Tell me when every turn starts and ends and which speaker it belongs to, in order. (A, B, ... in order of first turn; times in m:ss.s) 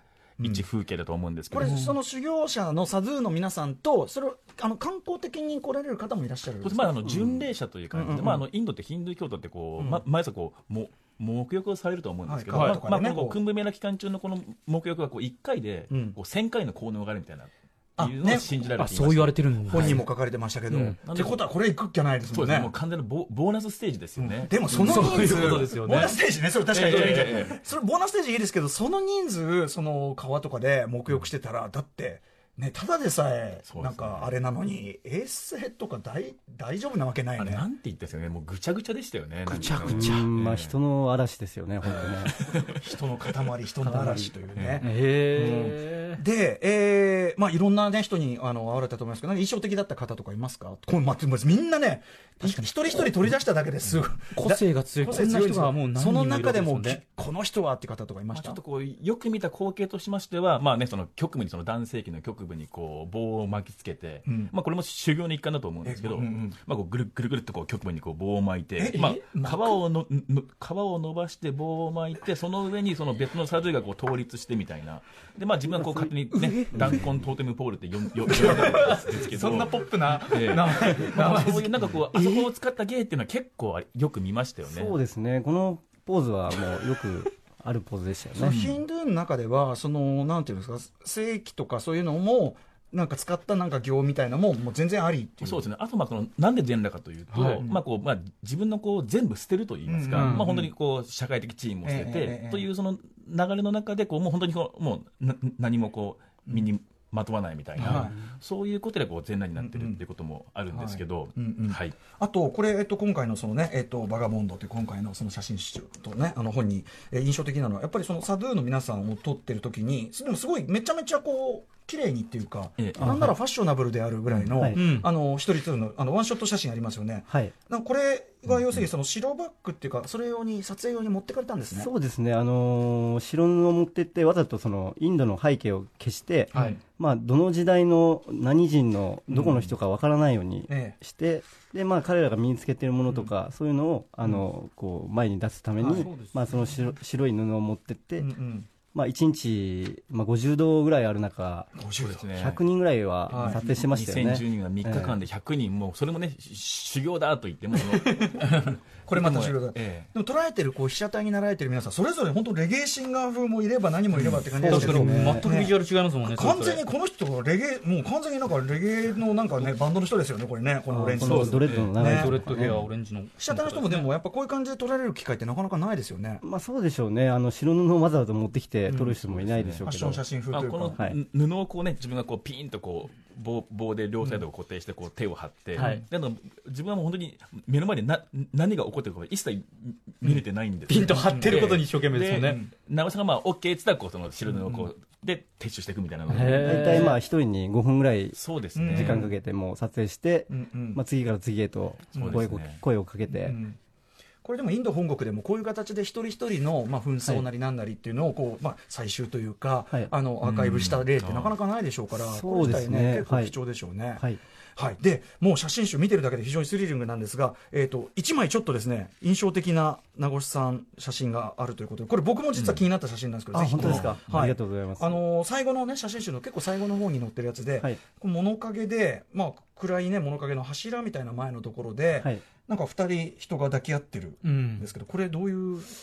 0:00.4-0:00.7 A
0:00.4-0:01.7 B
0:01.5-0:08.5 A
0:01.6-0:01.9 C
0:06.6-0:20.0 B
0:09.8-0:10.0 A
0:12.2-0:13.4 A
0:12.5-0:12.8 C
0:15.9-0:16.2 A
0:18.0-0:18.5 A
0:18.8-0:20.0 C
0:19.7-0:22.7 A
0:20.7-0:21.4 B
0:22.3-0:26.1 B
0:24.2-0:37.7 A
0:24.7-0:26.1 C
0:26.7-0:27.6 B
0:26.7-0:27.4 C
0:33.7-0:34.3 B
0:37.4-0:40.8 B
0:39.5-0:40.3 A
0:39.8-0:42.3 D
0:41.9-0:42.8 B
0:42.8-0:58.6 A
0:43.8-0:44.3 D
0:44.6-0:44.8 B
0:44.8-0:46.2 C
0:54.3-0:57.0 C
0:58.3-1:25.0 B
1:04.3-1:04.5 A
1:05.8-1:06.6 A
1:08.8-1:09.7 A
1:15.7-1:17.2 D
1:16.4-1:16.9 C
1:18.3-1:21.7 C
1:24.6-1:28.6 D
1:28.4-1:35.7 A
1:28.4-1:28.8 B
1:35.4-1:52.0 B
1:37.3-1:37.7 C
1:39.9-1:40.7 A
1:40.1-1:40.5 C
1:41.8-1:42.7 A
1:47.8-1:48.3 A
1:47.8-1:48.1 C
1:49.6-1:50.0 A
1:50.7-2:11.9 A
2:02.8-2:03.1 B
2:03.0-2:03.3 D
2:04.6-2:04.8 D
2:04.7-2:05.1 C
2:07.3-2:07.5 D
2:08.5-2:08.8 B
2:11.7-2:28.3 D
2:16.5-2:16.8 A
2:19.3-2:19.7 A
2:20.7-2:21.0 A
2:25.8-2:26.6 C
2:28.2-2:28.7 A
2:28.9-2:31.7 D
2:31.7-2:32.3 A
2:32.0-2:32.6 B
2:32.4-2:35.2 D
2:33.3-2:33.9 A
2:33.5-2:40.1 B
2:37.8-2:52.8 A
2:44.2-2:44.4 B
2:44.5-2:45.4 D
2:44.7-2:46.8 C
2:50.9-2:52.7 D
2:51.2-2:51.9 B
2:52.0-2:54.1 C
2:53.4-2:56.4 A
2:56.4-3:00.2 D
2:58.9-2:59.2 A
2:59.2-2:59.9 B
2:59.8-3:01.0 A
3:00.5-3:17.1 B
3:05.8-3:06.0 C
3:10.2-3:12.7 A
3:10.9-3:12.6 C
3:14.4-3:14.9 A
3:16.3-3:23.6 D
3:16.3-3:17.2 C
3:18.4-3:19.2 B
3:18.8-3:19.4 A
3:20.5-3:21.0 A
3:22.1-3:22.5 A
3:22.2-3:22.8 B
3:23.3-3:23.8 A
3:24.4-3:34.2 A
3:30.4-3:31.6 B
3:32.1-3:33.6 D
3:34.8-3:55.9 A
3:42.6-3:42.8 B
3:43.5-3:45.2 D
3:52.2-3:52.4 D
3:54.4-3:54.8 C